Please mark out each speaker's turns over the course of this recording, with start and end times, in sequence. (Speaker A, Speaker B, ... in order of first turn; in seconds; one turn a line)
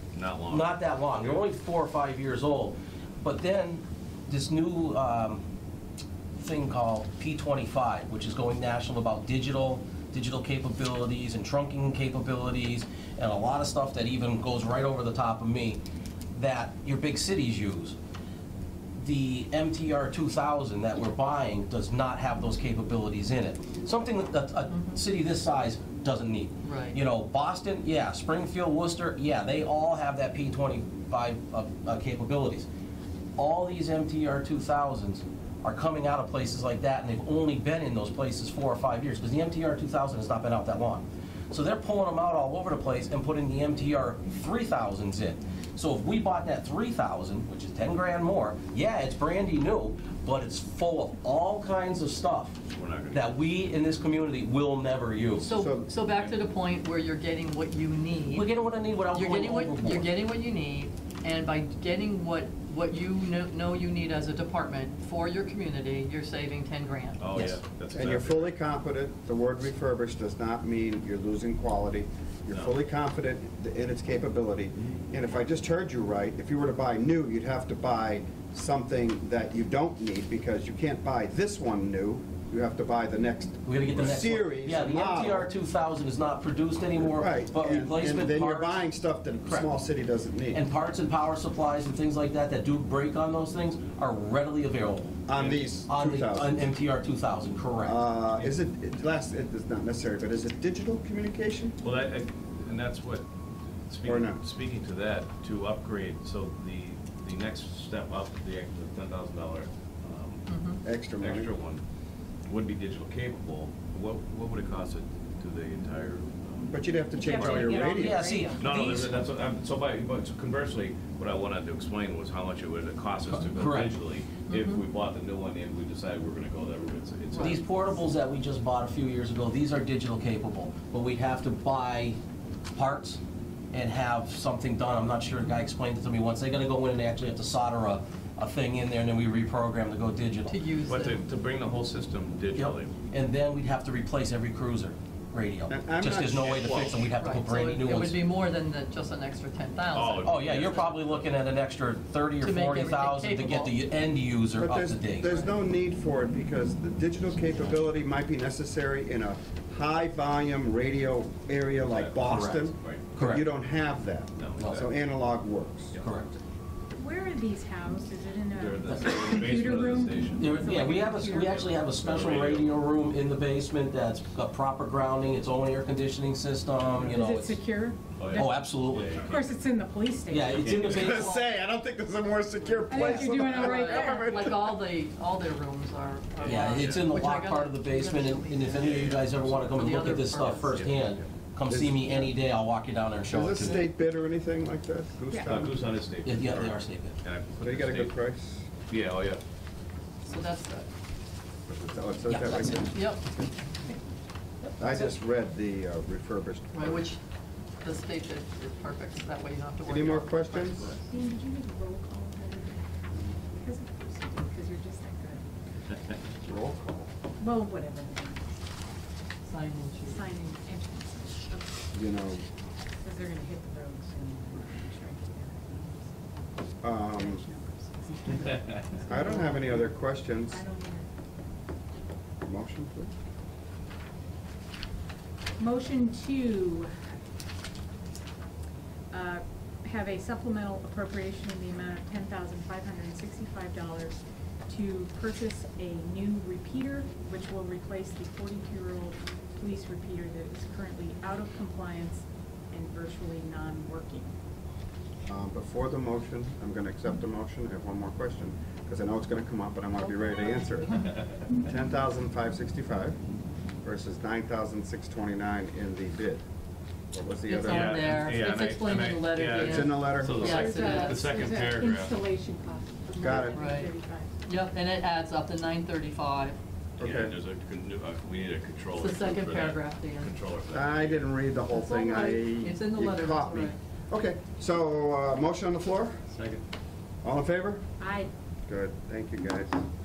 Speaker A: 0.1-1.4
Speaker B: 0.5-5.4
Speaker B: 6.3-15.8
Speaker B: 16.3-18.0
Speaker B: 19.0-32.7
Speaker C: 26.6-27.0
Speaker B: 33.4-52.6
Speaker A: 52.7-53.4
Speaker B: 53.1-55.5
Speaker C: 55.4-58.6
Speaker D: 55.5-55.9
Speaker B: 58.3-60.1
Speaker C: 59.1-67.3
Speaker A: 67.2-68.5
Speaker D: 67.9-85.5
Speaker B: 83.7-88.9
Speaker D: 87.0-90.6
Speaker B: 90.5-95.3
Speaker D: 95.3-96.7
Speaker A: 95.4-95.6
Speaker B: 95.9-98.0
Speaker D: 97.8-101.8
Speaker A: 101.8-103.3
Speaker A: 103.9-110.5
Speaker D: 104.0-104.4
Speaker C: 110.5-110.8
Speaker D: 110.8-111.5
Speaker A: 111.2-111.8
Speaker A: 112.5-117.9
Speaker D: 116.7-118.2
Speaker E: 117.1-119.1
Speaker B: 117.9-119.1
Speaker A: 118.6-127.6
Speaker B: 123.3-123.9
Speaker C: 124.5-124.8
Speaker C: 127.3-127.6
Speaker B: 127.4-132.2
Speaker B: 132.7-133.2
Speaker B: 133.7-140.6
Speaker C: 140.5-141.2
Speaker A: 140.9-142.9
Speaker B: 142.6-148.2
Speaker D: 145.7-147.1
Speaker C: 147.2-150.8
Speaker A: 149.9-151.2
Speaker B: 150.2-155.5
Speaker C: 152.4-153.8
Speaker D: 154.6-166.0
Speaker A: 161.8-163.2
Speaker B: 162.2-163.5
Speaker A: 164.4-164.9
Speaker A: 165.9-166.2
Speaker B: 166.0-166.4
Speaker E: 166.9-171.7
Speaker A: 168.5-170.6
Speaker B: 170.4-177.6
Speaker A: 171.6-172.8
Speaker E: 177.0-180.9
Speaker A: 178.2-179.5
Speaker B: 178.3-179.2
Speaker B: 180.3-181.3
Speaker A: 180.5-181.3
Speaker D: 180.9-184.8
Speaker C: 181.1-181.5
Speaker C: 182.6-191.1
Speaker E: 182.9-184.4
Speaker A: 186.4-187.1
Speaker B: 186.4-193.9
Speaker A: 188.8-189.2
Speaker A: 190.4-191.3
Speaker D: 191.7-192.3
Speaker D: 193.3-195.9
Speaker E: 195.3-195.7
Speaker A: 195.4-198.1
Speaker B: 196.2-197.2
Speaker D: 197.6-198.7
Speaker A: 198.9-199.4
Speaker C: 200.3-200.9
Speaker D: 201.7-203.3
Speaker B: 202.3-202.5
Speaker C: 202.9-203.2
Speaker D: 204.8-207.1
Speaker C: 206.7-207.2
Speaker C: 207.8-211.0
Speaker D: 209.9-210.9
Speaker E: 211.0-212.9
Speaker E: 213.4-215.5
Speaker D: 216.4-217.1
Speaker E: 217.4-218.6
Speaker C: 219.4-220.3
Speaker E: 220.0-221.8
Speaker D: 221.9-222.5
Speaker E: 223.0-229.9
Speaker D: 226.8-227.4
Speaker D: 229.1-230.6
Speaker E: 230.5-231.1
Speaker D: 232.4-233.1
Speaker E: 235.6-236.9
Speaker E: 239.1-254.3
Speaker D: 255.3-261.1
Speaker D: 261.6-263.2
Speaker D: 263.8-266.4
Speaker D: 267.1-268.0
Speaker C: 267.5-271.3
Speaker A: 267.7-272.1
Speaker D: 269.6-270.4
Speaker E: 270.4-274.4
Speaker D: 273.2-273.7
Speaker C: 273.5-273.9
Speaker C: 274.4-276.6
Speaker D: 277.0-277.3
Speaker A: 277.0-281.3
Speaker C: 278.9-280.3
Speaker D: 280.7-286.2
Speaker C: 281.7-283.8
Speaker D: 287.2-287.8
Speaker E: 288.0-288.3
Speaker D: 288.7-289.8